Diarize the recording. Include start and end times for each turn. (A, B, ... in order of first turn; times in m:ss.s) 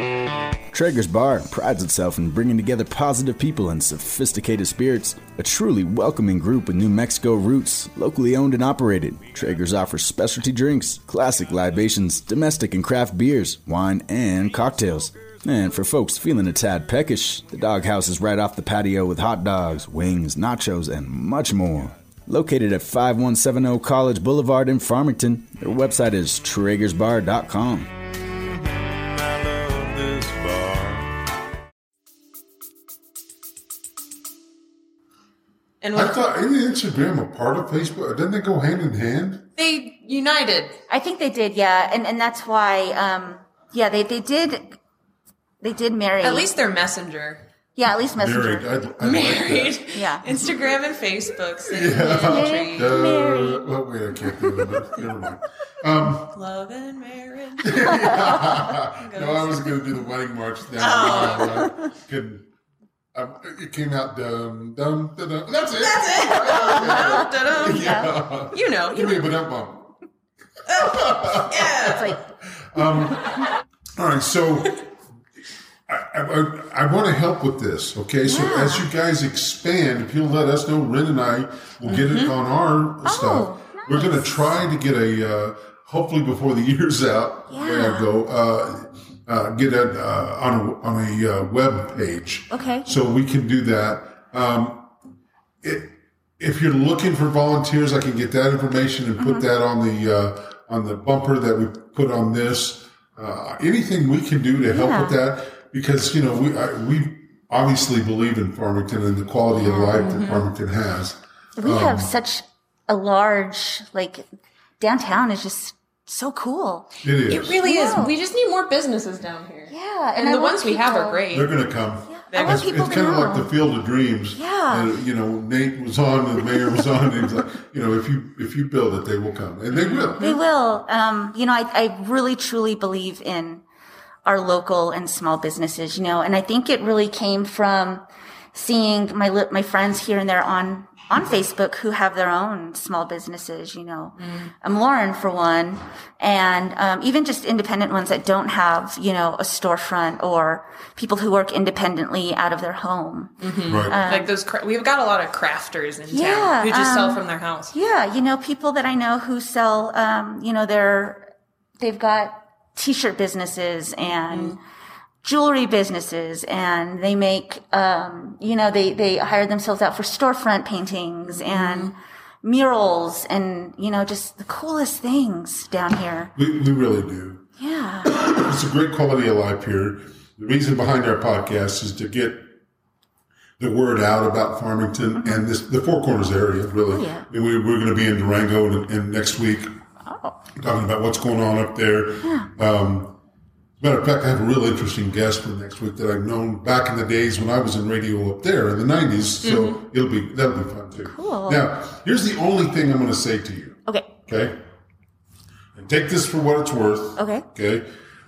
0:00.7-0:27.9 A
0:29.7-0:30.9 A
0:35.8-0:36.2 B
0:35.9-0:39.5 C
0:39.6-0:40.8 B
0:40.9-0:44.8 D
0:45.6-0:46.5 D
0:46.2-0:47.4 B
0:47.8-0:48.7 D
0:48.2-0:49.8 C
0:49.0-0:53.0 B
0:49.9-0:50.2 D
0:51.6-0:56.3 C
0:52.2-0:53.6 D
0:56.3-0:59.8 B
0:57.6-1:02.5 C
1:00.8-1:01.7 B
1:03.1-1:09.9 C
1:05.8-1:09.3 B
1:07.7-1:08.2 D
1:10.7-1:14.8 C
1:10.7-1:12.2 B
1:11.8-1:12.2 D
1:15.9-1:34.9 C
1:18.2-1:18.8 D
1:21.8-1:22.3 B
1:23.0-1:24.3 D
1:27.5-1:28.1 D
1:32.5-1:32.9 D
1:35.6-1:52.1 C
1:39.2-1:39.5 D
1:44.7-1:45.2 D
1:49.6-1:50.1 D
1:49.9-1:50.5 B
1:51.6-1:54.2 D
1:54.8-1:56.9 D
1:57.0-1:57.6 C
1:57.3-2:01.5 B
1:57.6-1:58.1 D
1:59.7-2:01.2 D
2:01.3-2:10.2 C
2:02.1-2:03.5 D
2:02.3-2:02.7 B
2:04.3-2:04.9 D
2:09.7-2:10.4 B
2:10.2-2:13.6 D
2:14.2-2:34.3 D
2:24.2-2:24.5 B
2:33.4-2:37.7 B
2:33.7-2:34.0 C
2:36.1-2:44.6 D
2:44.3-2:44.5 B
2:45.2-2:56.3 D
2:51.4-2:51.9 B
2:56.4-2:57.4 C
2:57.6-2:58.2 D
2:58.0-3:02.5 C
3:03.6-3:09.7 C
3:06.9-3:07.2 D
3:10.0-3:10.4 D
3:10.6-3:13.2 C
3:12.2-3:12.5 D
3:13.8-3:24.6 C
3:19.4-3:19.8 B
3:21.1-3:21.7 D
3:25.7-3:27.9 C
3:27.2-3:27.4 D